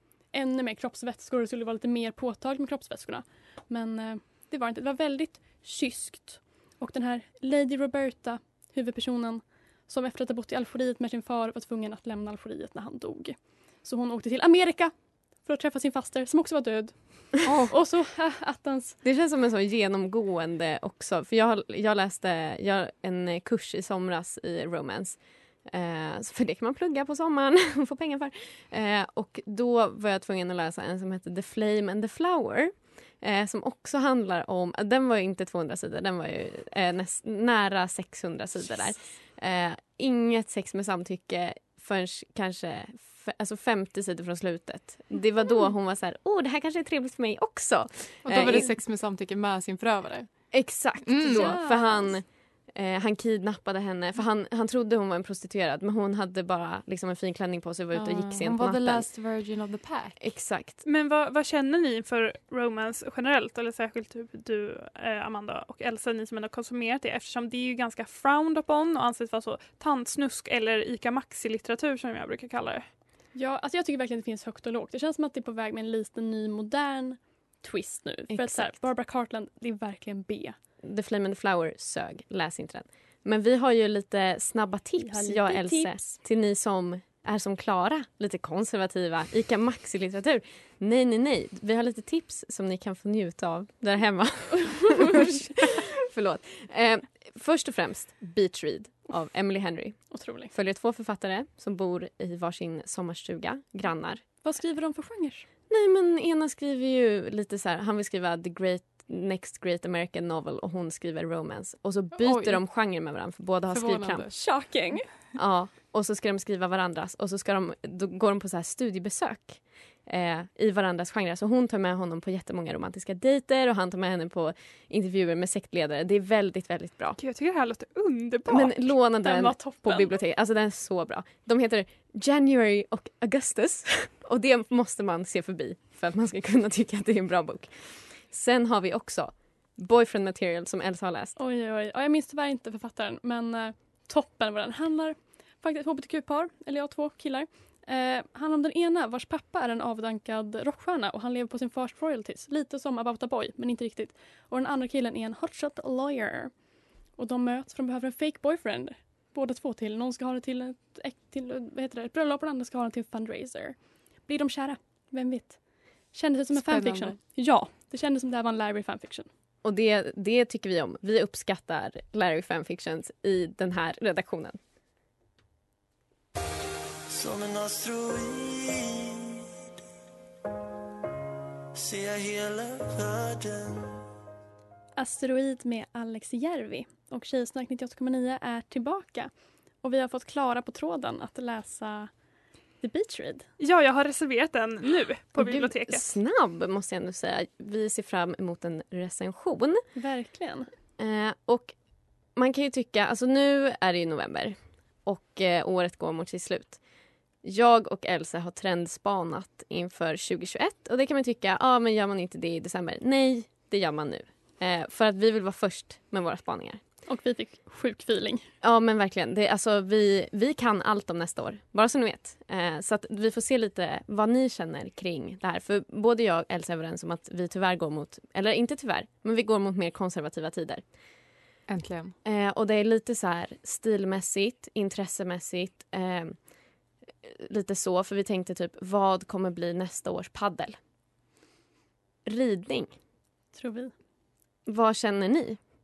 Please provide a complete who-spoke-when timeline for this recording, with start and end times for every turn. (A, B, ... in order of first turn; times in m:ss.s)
0:00.3-0:19.0 A
0:17.4-0:17.7 B
0:19.0-0:48.7 C
0:48.2-0:51.6 B
0:50.5-0:59.1 C
0:51.2-0:52.2 A
0:57.9-1:00.2 B
1:00.2-1:00.8 C
1:00.8-1:12.8 D
1:13.3-1:20.5 A
1:18.3-1:18.8 C
1:20.8-1:44.2 C
1:25.0-1:25.9 A
1:40.1-1:40.5 A
1:44.4-1:45.5 A
1:45.7-1:54.7 C
1:52.1-1:52.8 B
1:53.7-1:54.4 B
1:54.3-1:55.1 A
1:55.3-2:07.2 C
2:07.2-2:08.8 D
2:08.5-2:21.4 C
2:09.2-2:10.1 A
2:21.4-2:36.6 A
2:37.1-2:49.3 A
2:46.5-2:47.2 B
2:49.6-2:54.6 C
2:57.1-2:59.4 E
3:01.7-3:04.0 E
3:05.0-3:12.1 A
3:12.8-3:13.4 A
3:13.6-3:16.1 D
3:15.4-3:19.8 C
3:19.9-3:20.7 A
3:21.0-3:21.8 C
3:22.3-3:26.8 C
3:27.4-3:36.8 C
3:37.1-3:38.5 A
3:38.6-3:50.8 C
3:51.7-3:52.1 B
3:52.2-3:56.5 C
3:57.2-4:00.8 C
4:02.2-4:02.9 C
4:03.5-4:03.9 A
4:04.6-4:05.6 C